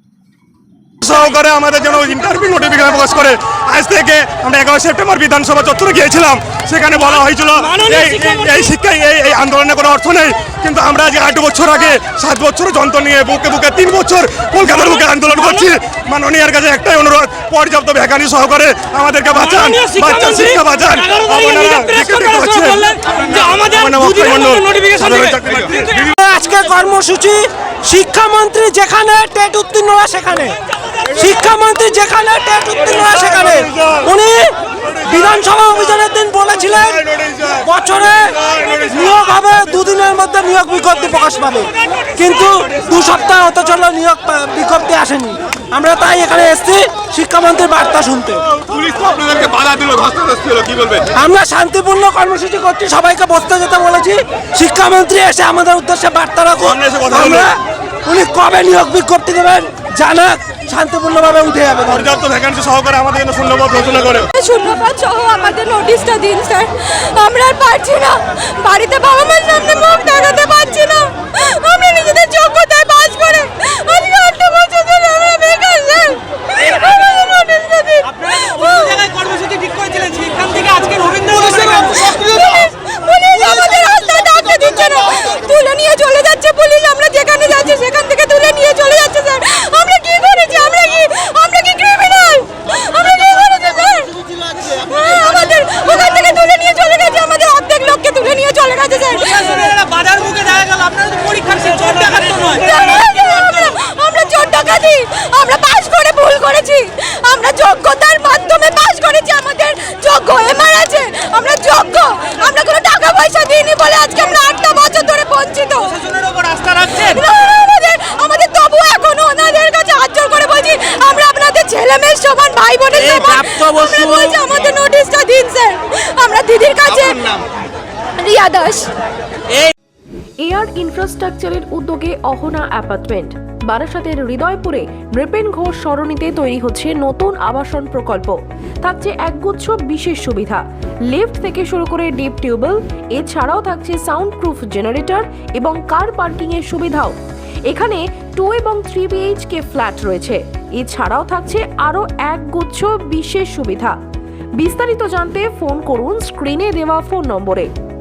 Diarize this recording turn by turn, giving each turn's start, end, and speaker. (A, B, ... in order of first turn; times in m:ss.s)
0:01.0-0:26.0 A
0:26.0-1:02.1 B
0:56.6-0:57.5 A
1:01.9-1:04.3 A
1:04.4-1:56.1 C
1:19.1-1:21.0 D
1:39.7-1:42.1 D
1:56.0-1:56.9 D
1:56.7-2:07.4 C
2:08.2-2:08.9 C
2:10.4-2:27.2 E
2:27.7-2:34.0 E
2:34.6-2:37.7 E